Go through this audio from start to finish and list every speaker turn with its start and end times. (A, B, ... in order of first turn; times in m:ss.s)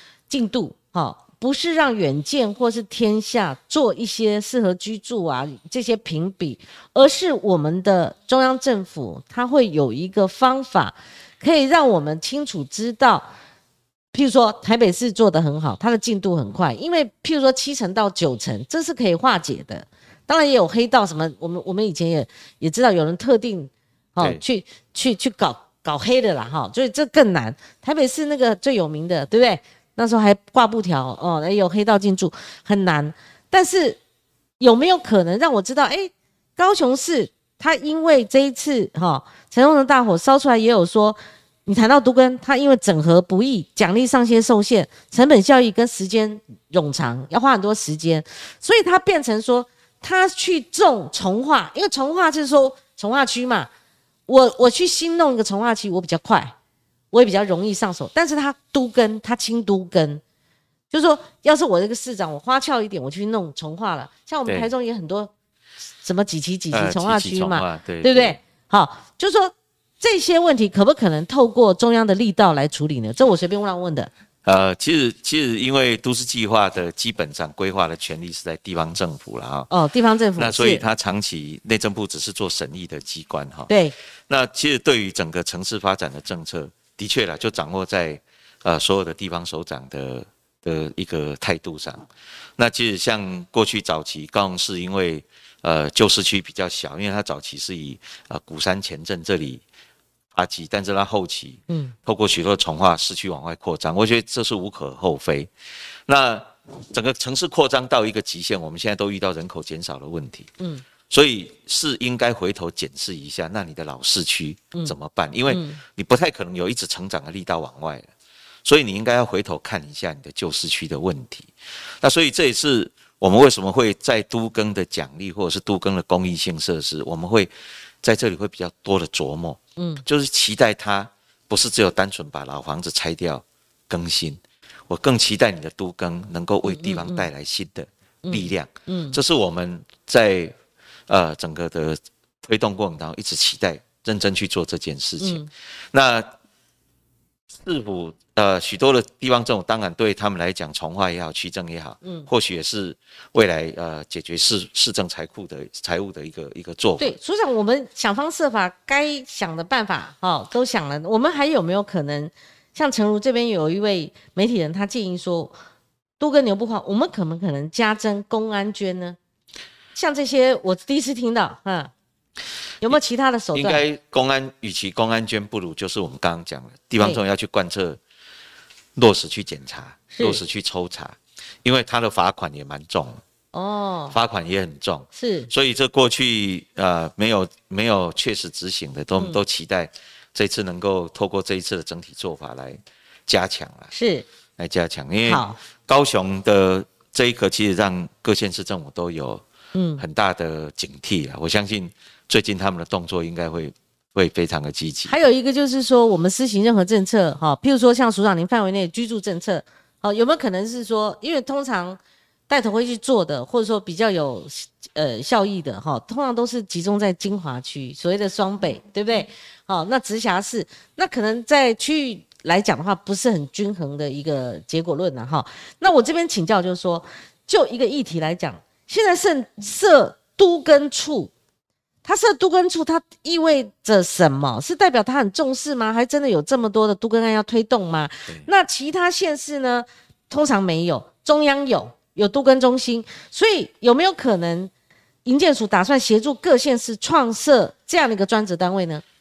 0:00.3-0:13.3 A
0:14.1-0:34.0 A
0:34.6-0:53.7 A
0:54.3-0:56.5 A
0:57.1-1:00.2 A
1:00.9-1:05.3 A
1:06.0-1:14.1 A
1:06.7-1:08.4 B
1:14.4-1:19.7 B
1:19.7-1:20.8 A
1:20.4-1:23.7 B
1:23.7-1:23.9 A
1:24.3-1:32.0 B
1:32.6-1:39.6 B
1:40.3-1:45.5 B
1:41.7-1:41.9 A
1:46.0-1:50.5 B
1:50.6-1:50.8 A
1:51.1-1:58.1 B
1:55.5-1:55.8 A
1:58.6-2:07.5 B
2:08.0-2:20.5 B
2:09.8-2:10.0 A
2:16.6-2:17.3 A
2:18.2-2:19.2 A
2:21.1-2:26.3 B
2:25.2-2:25.5 A
2:27.5-2:37.2 B
2:32.0-2:32.3 A
2:37.0-2:45.5 A
2:46.2-2:49.2 A
2:49.9-2:51.9 A
2:52.8-2:53.8 A
2:53.5-2:58.0 B
2:59.0-3:03.2 B
3:00.1-3:00.4 A
3:03.5-3:04.2 A
3:04.1-3:13.9 B
3:05.2-3:05.5 A
3:13.9-3:14.2 A
3:14.6-3:19.4 B
3:15.2-3:15.6 A
3:19.7-3:20.0 A
3:20.0-3:25.1 B
3:25.0-3:51.3 A
3:52.0-4:04.7 A
4:05.2-4:09.0 A